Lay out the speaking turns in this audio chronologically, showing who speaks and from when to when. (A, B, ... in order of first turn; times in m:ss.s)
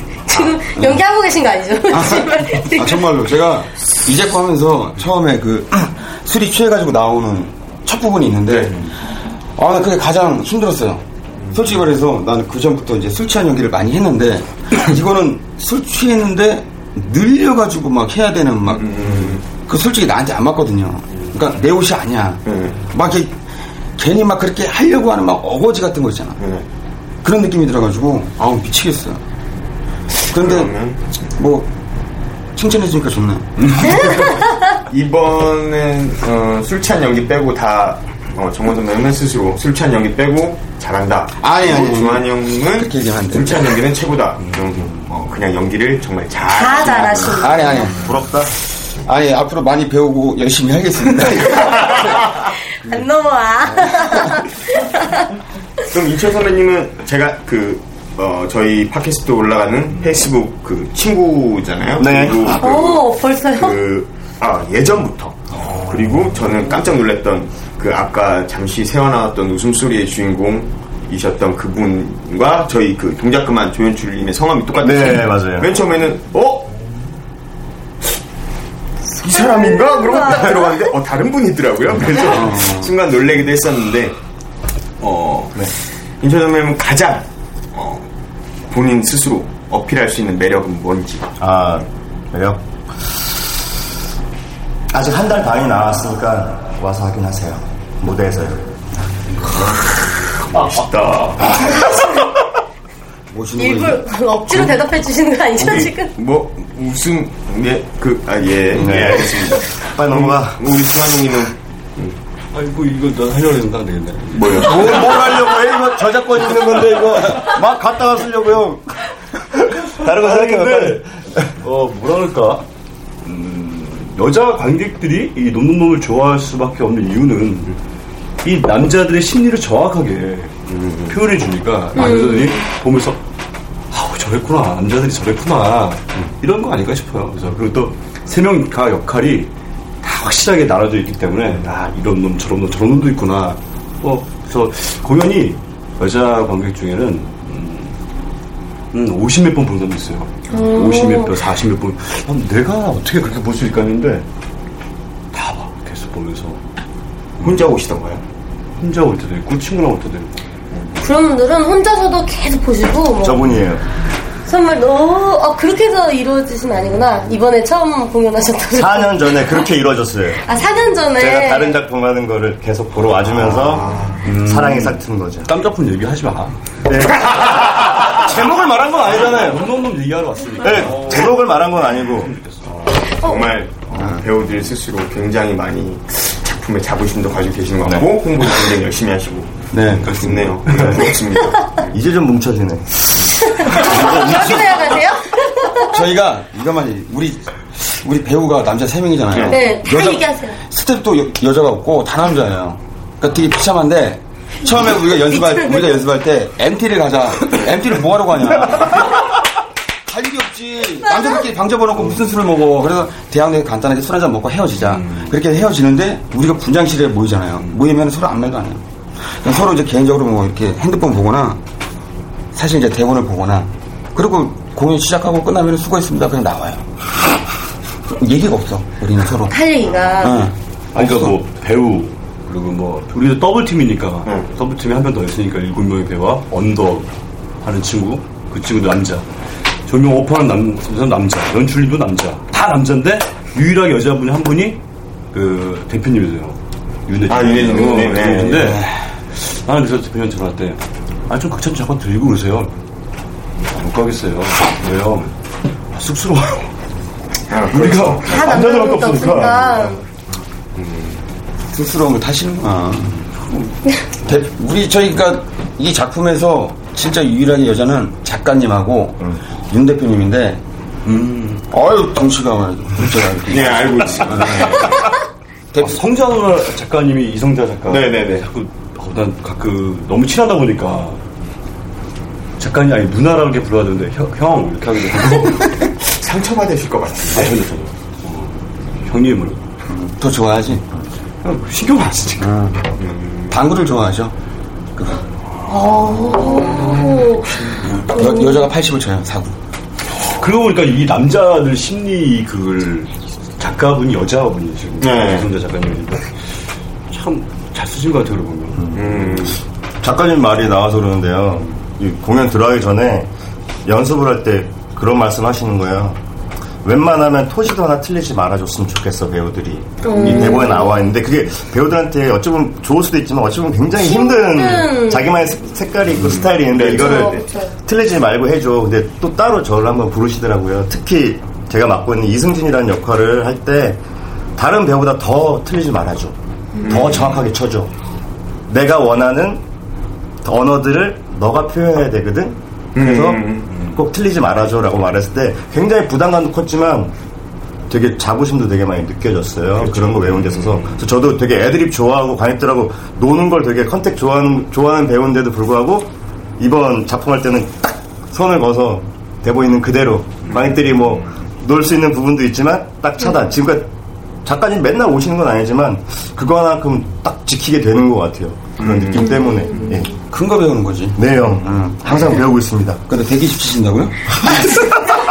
0:00.3-0:03.1 A
0:01.9-0:08.8 B
0:08.5-0:08.8 C
0:09.6-0:23.4 B
0:18.7-0:19.4 C
0:22.5-0:22.8 C
0:24.0-0:26.4 B
0:26.4-0:26.6 C
0:27.2-0:29.2 B
0:30.3-0:30.8 B
0:30.3-0:31.1 C
0:31.4-0:31.7 B
0:32.5-0:34.4 B
0:34.9-0:47.5 C
0:41.4-0:43.8 B
0:44.5-0:44.9 D
0:46.5-0:47.9 A
0:47.3-0:48.0 B
0:48.0-0:48.6 E
0:49.0-0:52.3 B
0:52.8-0:55.3 A
0:55.9-1:16.7 C
1:02.0-1:02.6 E
1:02.5-1:03.8 A
1:14.8-1:15.8 E
1:19.2-1:24.2 C
1:19.2-1:20.8 A
1:22.2-1:22.9 B
1:25.0-1:28.1 C
1:28.7-1:31.3 C
1:31.4-1:32.6 E
1:34.9-1:38.7 E
1:39.5-1:42.0 C
1:43.3-1:44.0 B
1:43.6-1:46.1 A
1:45.6-1:52.2 C
1:48.7-1:50.8 E
1:52.5-1:55.4 D
1:54.3-1:55.0 C
1:54.6-2:01.5 E
2:00.0-2:02.6 D
2:03.2-2:07.8 D
2:08.4-2:13.2 D
2:10.7-2:11.1 C
2:12.0-2:12.6 A
2:13.9-2:19.5 D
2:20.0-2:28.0 D
2:28.9-2:34.2 D
2:30.5-2:31.3 A
2:35.3-2:36.6 D
2:37.4-2:38.2 C
2:37.4-2:37.7 D
2:38.8-2:40.4 D
2:41.0-2:43.5 A
2:43.2-2:43.8 E
2:44.5-2:49.4 A
2:48.7-2:50.4 E
2:50.4-2:51.8 A
2:51.2-2:55.5 E
2:53.4-2:54.2 C
2:54.2-2:56.6 D
2:56.8-2:59.7 E
2:59.1-3:02.6 D
3:00.6-3:02.3 E
3:02.6-3:11.9 C
3:03.2-3:03.5 A
3:09.7-3:10.6 B
3:10.7-3:11.1 E
3:11.9-3:13.1 E
3:13.4-3:16.0 A
3:13.8-3:14.8 B
3:15.8-3:29.2 B
3:19.3-3:19.6 C
3:19.5-3:20.6 A
3:30.1-3:41.6 B
3:42.5-3:46.9 B
3:48.1-3:49.6 B
3:49.5-3:50.4 A
3:50.2-3:51.4 B
3:51.0-3:57.1 D
3:57.6-3:59.3 D
3:59.9-4:04.8 D
4:05.3-4:12.7 D
4:07.3-4:08.7 C
4:07.8-4:08.0 A
4:08.6-4:09.0 B
4:13.7-4:15.4 D
4:15.9-4:16.7 D
4:17.5-4:19.0 C
4:17.7-4:19.9 D
4:18.2-4:20.0 A
4:20.8-4:21.2 C
4:21.7-4:23.2 B
4:24.2-4:35.0 B
4:31.1-4:31.6 D
4:33.5-4:35.1 C
4:35.7-4:36.0 B
4:35.8-4:41.2 D
4:37.9-4:38.5 C
4:42.6-4:45.7 D
4:45.9-4:47.6 C
4:47.3-4:49.6 D
4:49.9-4:50.9 B
4:51.4-4:52.6 D
4:52.4-4:52.9 B
4:53.0-4:53.6 C
4:53.5-4:54.4 B
4:55.0-4:55.2 B
4:55.7-4:57.6 A
4:56.4-4:56.9 C
4:56.5-4:57.8 D
4:57.9-4:59.6 B
4:58.1-4:58.7 A
5:00.3-5:06.3 D
5:05.0-5:05.5 C
5:07.1-5:09.0 D
5:08.9-5:09.4 E
5:08.9-5:09.6 C
5:10.0-5:13.3 E
5:13.8-5:16.2 E
5:16.8-5:34.0 E
5:20.0-5:21.0 A
5:20.2-5:20.5 C
5:24.0-5:25.3 A
5:26.6-5:27.4 C
5:26.9-5:27.8 A
5:34.6-5:37.9 E
5:36.8-5:37.3 C
5:37.1-5:37.4 D
5:38.7-5:39.6 E
5:40.4-5:47.1 E
5:43.0-5:43.8 C
5:47.9-6:03.9 E
5:49.8-5:51.0 D
6:04.4-6:10.2 E
6:08.8-6:09.3 C
6:09.2-6:10.1 A
6:10.3-6:12.3 B
6:11.2-6:13.0 E
6:13.1-6:14.7 B
6:14.4-6:15.2 E